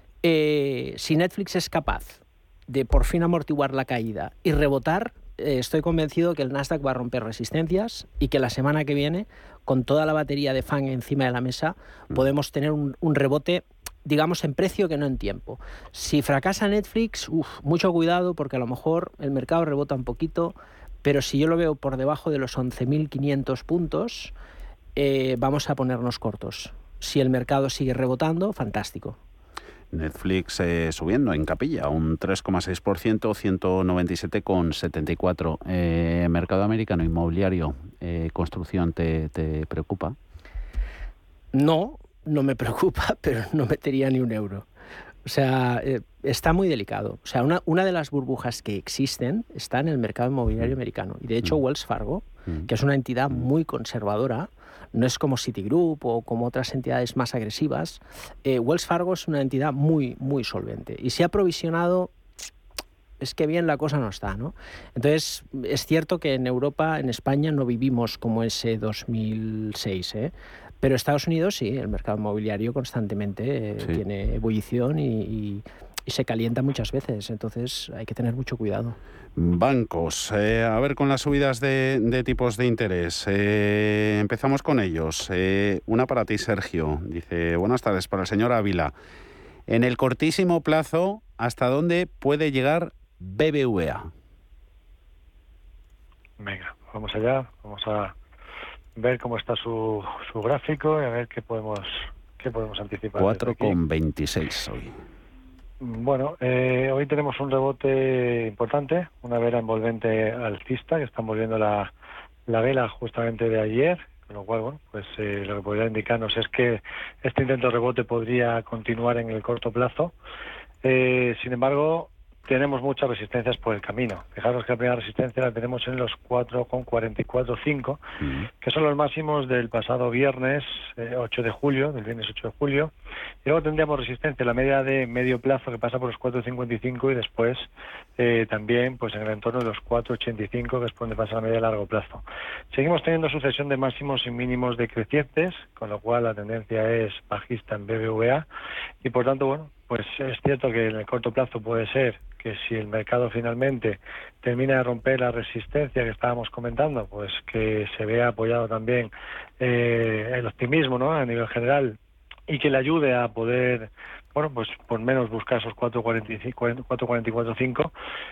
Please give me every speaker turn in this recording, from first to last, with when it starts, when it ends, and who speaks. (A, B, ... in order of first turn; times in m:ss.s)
0:00.2-0:24.3 A
0:25.0-0:29.2 A
0:29.9-0:40.2 B
0:41.5-0:44.6 A
0:45.2-1:02.1 A
1:03.2-1:19.0 A
1:19.4-1:28.9 B
1:29.7-1:34.1 B
1:36.4-1:38.1 C
1:39.0-1:43.8 C
1:43.2-1:45.0 B
1:45.8-1:51.9 C
1:52.5-2:00.1 C
2:00.8-2:08.0 C
2:08.2-2:08.5 B
2:08.6-2:12.9 C
2:13.4-2:28.4 C
2:29.0-2:47.9 C